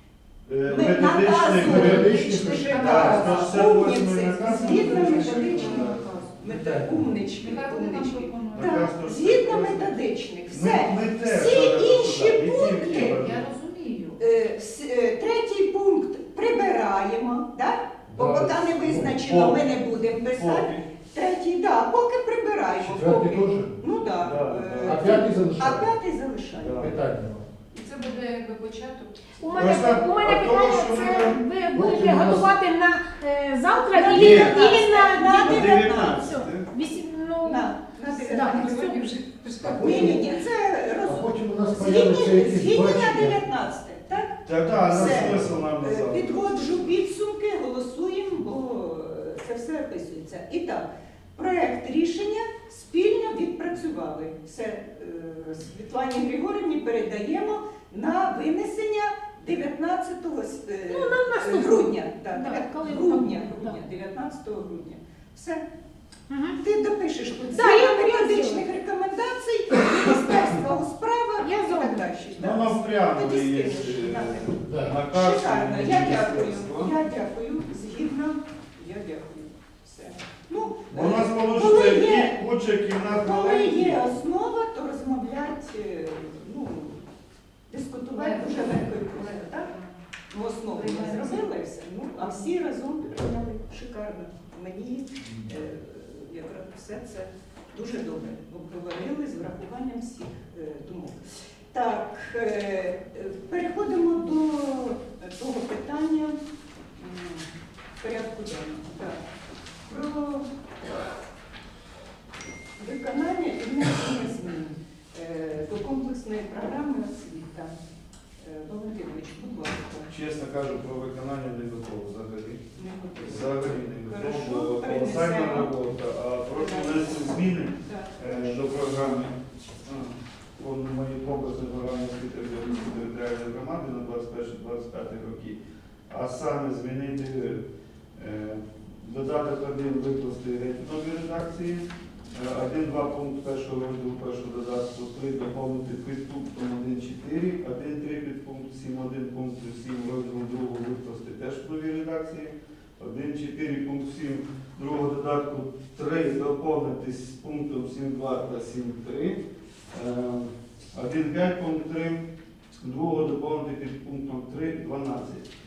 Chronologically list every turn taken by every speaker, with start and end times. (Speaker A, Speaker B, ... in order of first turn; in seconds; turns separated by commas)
Speaker A: 0.5-6.1, Speaker B: 0.6-13.2, Speaker C: 1.6-3.0, Speaker D: 2.6-3.8, Speaker D: 4.4-6.3, Speaker C: 6.4-7.2, Speaker D: 7.3-8.8, Speaker A: 8.5-10.0, Speaker A: 10.5-13.4, Speaker D: 12.9-14.2, Speaker B: 14.2-26.9, Speaker C: 18.1-19.1, Speaker A: 19.1-19.7, Speaker A: 20.2-20.8, Speaker C: 22.8-23.8, Speaker A: 24.2-25.2, Speaker C: 24.8-25.9, Speaker A: 26.5-27.0, Speaker C: 26.8-27.5, Speaker D: 27.7-29.6, Speaker E: 29.4-39.1, Speaker A: 29.6-31.4, Speaker C: 31.7-32.5, Speaker B: 33.9-36.3, Speaker A: 34.0-34.7, Speaker A: 35.3-36.7, Speaker B: 37.4-65.6, Speaker D: 38.4-40.1, Speaker C: 39.6-40.2, Speaker C: 41.0-43.4, Speaker A: 44.5-46.4, Speaker C: 44.8-45.5, Speaker E: 60.9-63.8, Speaker E: 66.3-66.6, Speaker B: 66.6-82.4, Speaker E: 67.5-68.7, Speaker E: 71.4-72.1, Speaker A: 72.4-76.9, Speaker C: 74.6-75.0, Speaker A: 80.9-84.2, Speaker B: 83.1-87.0, Speaker B: 87.7-89.7, Speaker D: 88.2-89.9, Speaker B: 90.3-101.2, Speaker D: 90.7-91.5, Speaker B: 101.7-106.4, Speaker B: 107.0-107.5, Speaker B: 108.0-109.2, Speaker B: 109.9-110.5, Speaker B: 112.8-117.7, Speaker B: 118.4-120.1, Speaker A: 120.1-122.6, Speaker B: 122.8-125.8, Speaker A: 123.2-135.6, Speaker B: 126.5-127.3, Speaker B: 127.8-128.9, Speaker A: 136.1-137.6, Speaker A: 138.2-159.4, Speaker A: 159.9-162.2, Speaker A: 162.8-165.5